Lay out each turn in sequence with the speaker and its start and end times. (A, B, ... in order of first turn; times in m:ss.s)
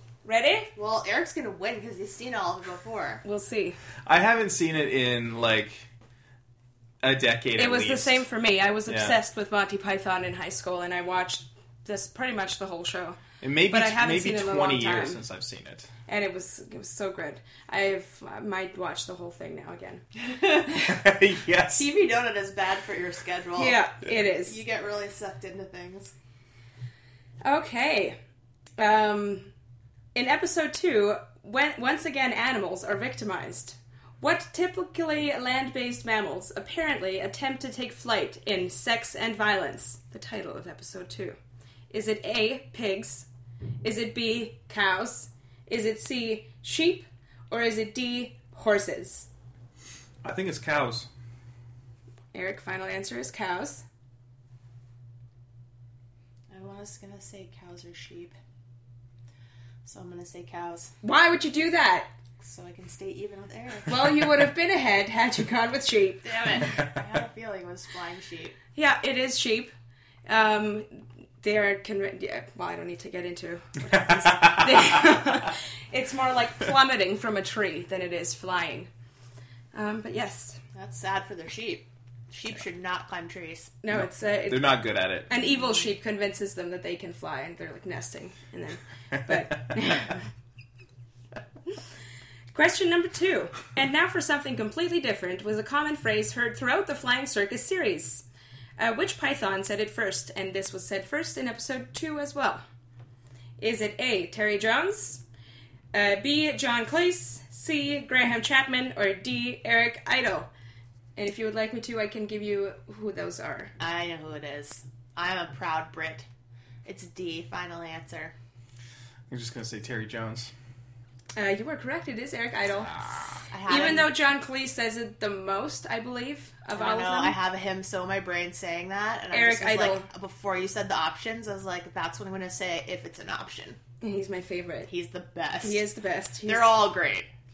0:00.2-0:00.7 A
0:00.8-0:03.2 B
0:03.2-0:03.8 A
0:04.1-0:05.9 C
0:07.0-0:08.2 C
0:07.6-0:13.2 A
0:08.9-0:09.2 C
0:13.4-0:15.9 C
0:13.7-0:15.2 A
0:16.1-0:20.0 A
0:20.2-0:21.1 B
0:20.8-0:21.9 C
0:21.8-0:23.8 B
0:23.6-0:24.6 A
0:24.5-0:26.1 B
0:27.4-0:28.2 A
0:28.8-0:29.5 A
0:30.2-0:41.4 A
0:41.9-0:43.3 A
0:43.8-0:49.3 A
0:50.2-0:51.1 C
0:52.3-0:53.8 A
0:56.5-0:58.4 B
0:59.8-1:00.9 B
1:01.0-1:02.1 A
1:02.4-1:03.9 B
1:03.9-1:06.5 A
1:06.2-1:08.6 B
1:08.8-1:09.7 A
1:10.3-1:18.9 A
1:13.9-1:15.0 C
1:19.7-1:20.6 A
1:20.8-1:23.8 B
1:23.8-1:30.2 A
1:23.9-1:25.3 C
1:32.5-1:38.3 A
1:38.8-1:42.6 A
1:43.6-1:45.2 A
1:45.9-1:50.5 A
1:51.2-1:53.7 A
1:53.8-1:56.3 B
1:56.8-1:58.3 B
1:59.3-2:00.5 C
2:01.4-2:07.4 A
2:03.5-2:04.1 B
2:06.7-2:13.8 B
2:09.3-2:10.1 A
2:14.0-2:14.9 A
2:14.9-2:15.9 B
2:15.6-2:16.9 A
2:16.5-2:17.3 B